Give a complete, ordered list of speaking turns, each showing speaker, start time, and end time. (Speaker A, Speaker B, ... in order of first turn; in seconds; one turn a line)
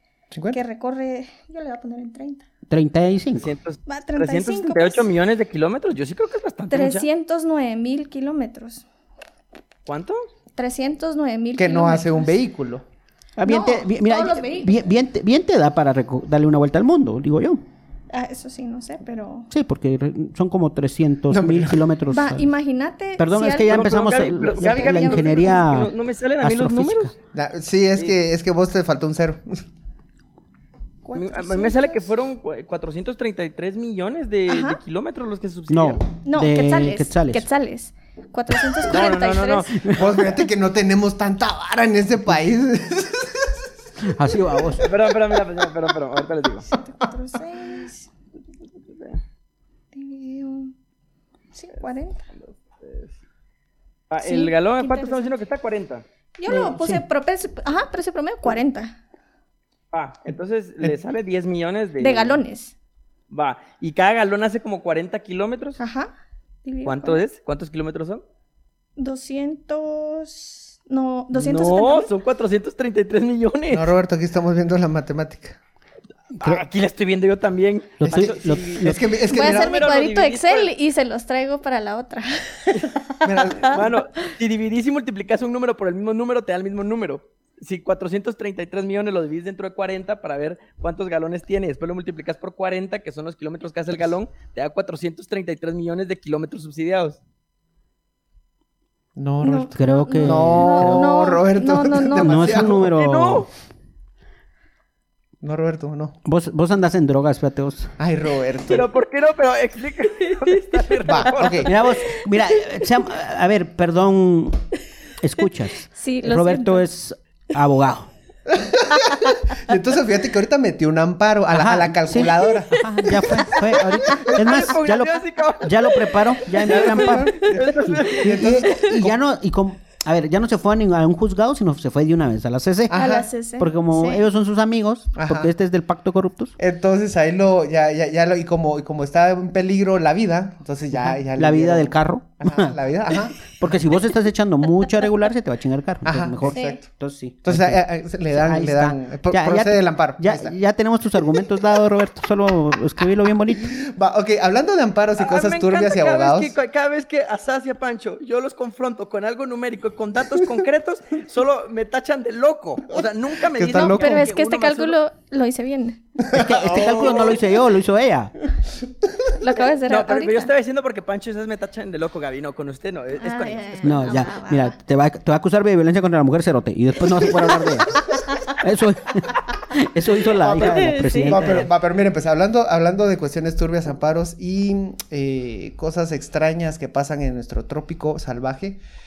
Speaker A: 0.3-0.6
Speaker B: 0.5-2.5
Speaker C: 2.7-3.5
Speaker D: 3.4-7.1
Speaker B: 3.9-5.1
Speaker B: 6.7-8.8
Speaker D: 9.9-10.2
Speaker B: 10.6-12.3
Speaker A: 11.6-12.8
Speaker C: 13.4-17.6
Speaker B: 13.4-14.8
Speaker B: 18.1-19.5
Speaker C: 19.5-22.5
Speaker A: 21.3-21.8
Speaker B: 22.1-25.7
Speaker C: 23.2-27.1
Speaker D: 23.6-27.2
Speaker A: 27.3-29.6
Speaker B: 31.0-32.1
Speaker D: 31.1-36.0
Speaker B: 34.5-34.8
Speaker C: 35.7-37.5
Speaker B: 36.2-40.0
Speaker D: 38.9-39.8
Speaker C: 39.8-40.2
Speaker A: 39.9-43.6
Speaker C: 44.0-44.9
Speaker A: 44.5-45.4
Speaker D: 44.8-46.7
Speaker B: 46.7-48.1
Speaker D: 48.9-49.2
Speaker B: 49.9-50.7
Speaker B: 51.5-52.3
Speaker D: 52.4-53.2
Speaker D: 54.1-56.0
Speaker B: 54.2-55.3
Speaker B: 56.4-59.0
Speaker C: 56.5-57.0
Speaker D: 59.9-62.4
Speaker B: 62.0-62.7
Speaker D: 63.3-65.8
Speaker B: 65.8-66.1
Speaker B: 66.7-67.2
Speaker D: 66.9-68.2
Speaker B: 69.0-72.1
Speaker D: 71.3-73.9
Speaker A: 73.7-75.6
Speaker C: 76.3-76.7
Speaker D: 76.4-80.7
Speaker C: 78.0-79.0
Speaker A: 78.1-79.8
Speaker B: 79.3-83.8
Speaker A: 83.2-83.9
Speaker D: 83.7-97.2
Speaker A: 99.2-102.9
Speaker B: 99.4-102.7
Speaker C: 99.8-101.2
Speaker C: 102.2-103.5
Speaker D: 102.6-103.5
Speaker A: 105.4-106.2
Speaker C: 106.2-108.0
Speaker A: 108.0-108.9
Speaker D: 108.7-111.8
Speaker B: 110.8-111.1
Speaker A: 111.1-111.7
Speaker C: 111.6-114.7
Speaker C: 115.2-118.1
Speaker B: 115.9-116.8
Speaker A: 118.5-123.8
Speaker B: 119.0-119.3
Speaker C: 121.5-132.9
Speaker D: 124.1-128.5
Speaker A: 126.7-129.2
Speaker B: 128.6-129.0
Speaker A: 132.9-133.3
Speaker B: 132.9-134.2
Speaker C: 133.6-136.6
Speaker A: 135.2-135.5
Speaker A: 136.6-143.6
Speaker C: 140.9-142.8
Speaker C: 143.4-153.8
Speaker A: 146.0-146.9
Speaker B: 146.5-146.8
Speaker A: 147.4-150.6
Speaker A: 153.6-156.6
Speaker D: 155.2-165.0
Speaker A: 163.5-164.3
Speaker B: 163.8-166.0
Speaker A: 166.2-167.3
Speaker C: 166.3-168.3
Speaker D: 166.6-167.4
Speaker B: 169.4-170.5
Speaker D: 169.8-174.2
Speaker B: 173.2-174.8
Speaker C: 173.8-181.7
Speaker A: 180.5-188.8
Speaker B: 180.6-181.4
Speaker D: 181.3-181.7